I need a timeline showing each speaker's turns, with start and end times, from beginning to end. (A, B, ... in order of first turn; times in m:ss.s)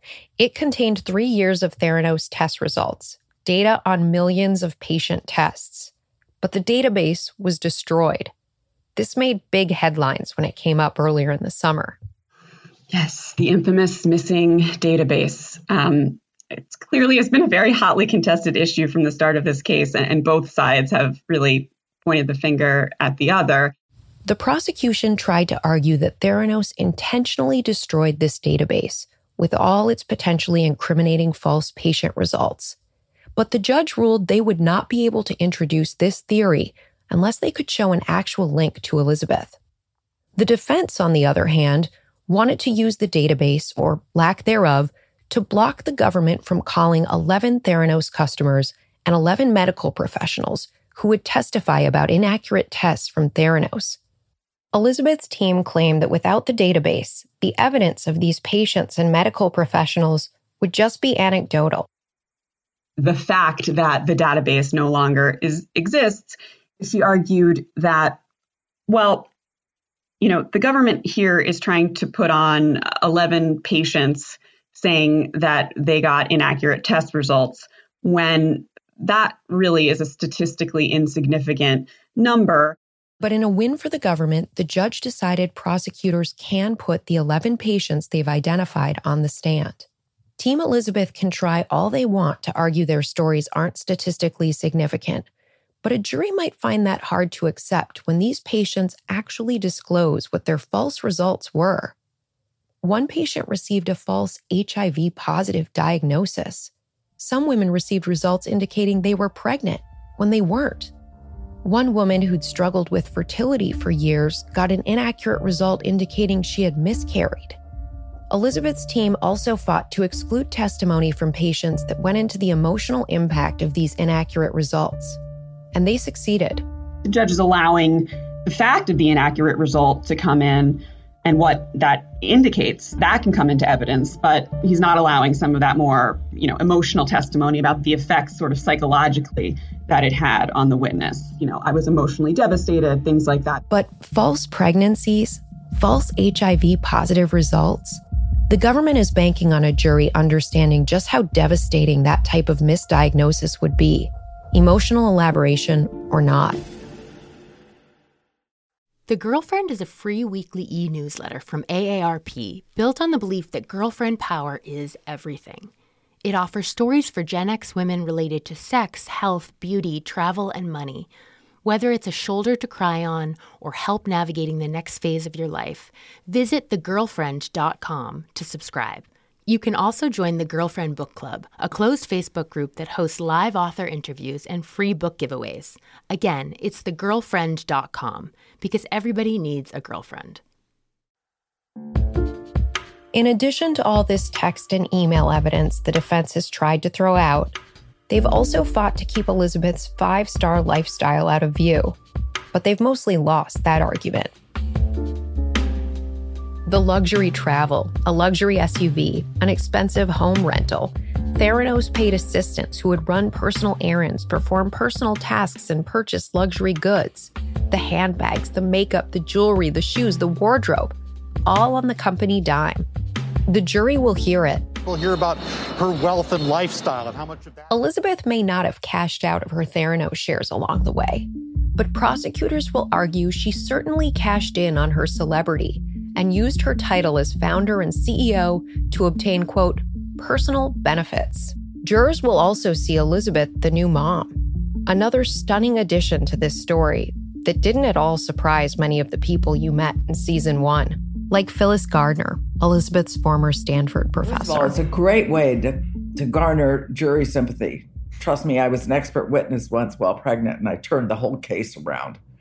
0:00.4-0:08.3 A
0:09.0-0:12.0 A
0:12.9-0:23.7 B
0:24.2-0:32.8 A
0:33.4-0:39.6 A
0:40.4-0:54.0 A
0:54.7-1:01.9 A
1:03.0-1:08.2 B
1:08.9-1:09.3 B
1:10.2-1:22.8 B
1:23.2-1:29.9 A
1:30.4-1:35.3 A
1:35.8-1:42.0 A
1:42.8-1:50.9 A
1:51.6-1:57.6 A
1:58.3-2:05.2 A
2:05.7-2:06.6 A
2:07.0-2:23.6 B
2:23.7-2:36.6 A
2:39.1-2:45.7 C
2:46.2-2:51.1 C
2:51.6-3:10.4 C
3:13.1-3:17.6 A
3:18.1-3:22.0 A
3:22.5-3:24.3 A
3:26.7-3:40.9 A
3:41.4-3:42.8 A
3:43.5-3:44.6 A
3:44.8-3:47.7 D
3:47.7-4:14.8 A
4:14.2-4:22.2 E